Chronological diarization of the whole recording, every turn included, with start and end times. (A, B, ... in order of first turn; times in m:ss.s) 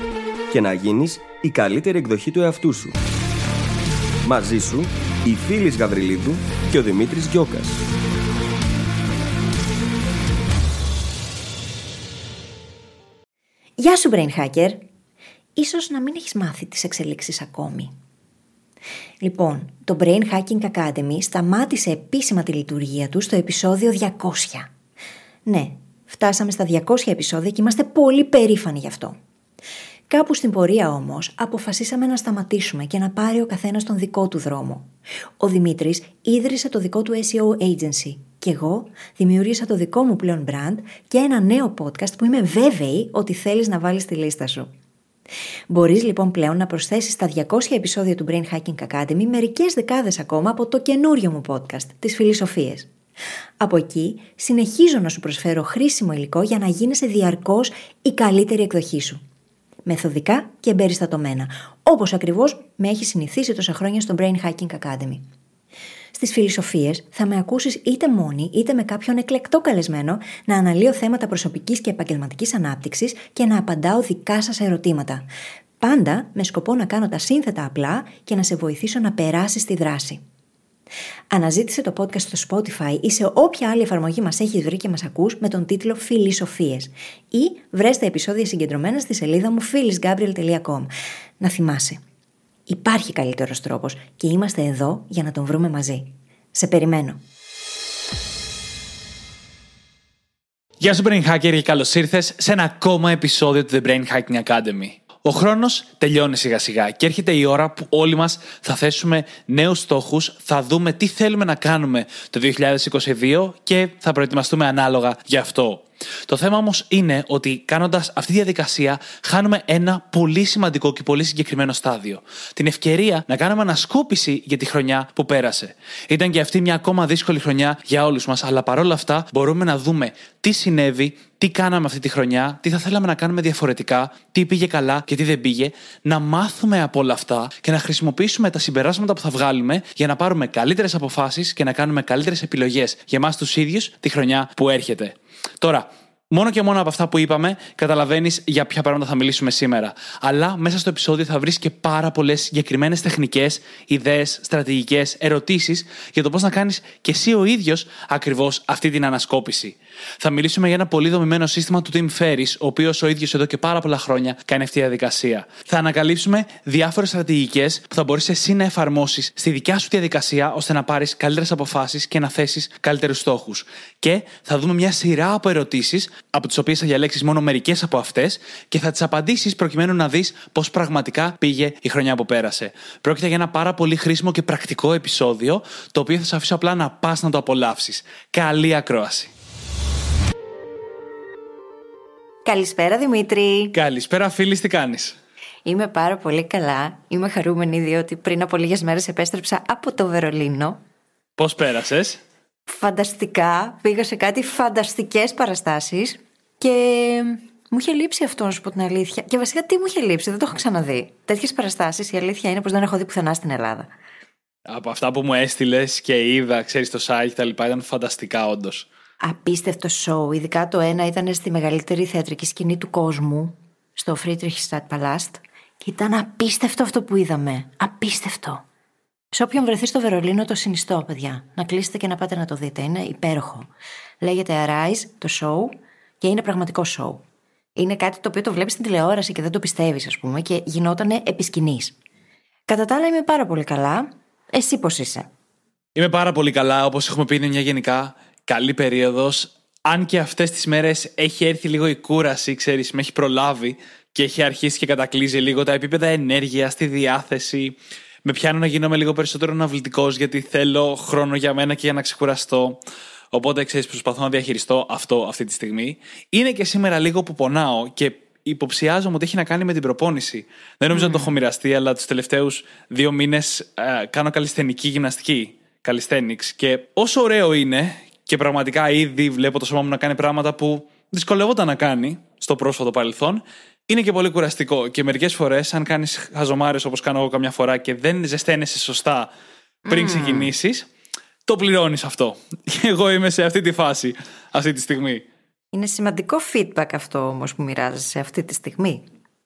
0:00.5-0:03.0 A
0:04.2-0:07.8 A
0:13.8-0:14.8 B
0:15.6-0:17.9 B
0:19.2-0:24.7 B
0:25.4-0:29.2 B
0:30.1-0:34.9 B
0:35.4-0:44.7 B
0:45.7-0:52.9 B
0:53.6-0:59.2 B
0:59.8-1:05.2 B
1:06.1-1:15.3 B
1:15.8-1:20.2 B
1:21.3-1:32.0 B
1:32.7-1:37.2 B
1:40.8-3:09.3 C
3:12.4-3:13.8 B
3:13.7-3:15.2 C
3:15.6-3:20.8 B
3:21.4-3:22.2 C
3:22.7-3:33.9 B
3:34.7-3:38.9 C
3:39.2-3:48.6 B
3:49.3-3:53.7 B
3:54.2-3:57.2 B
3:57.8-4:02.0 B
4:02.7-4:05.3 B
4:05.9-4:49.3 C
4:31.0-4:31.3 B
4:49.9-4:50.5 B
4:49.9-4:50.9 C
4:51.4-4:55.2 C
4:55.7-4:59.0 B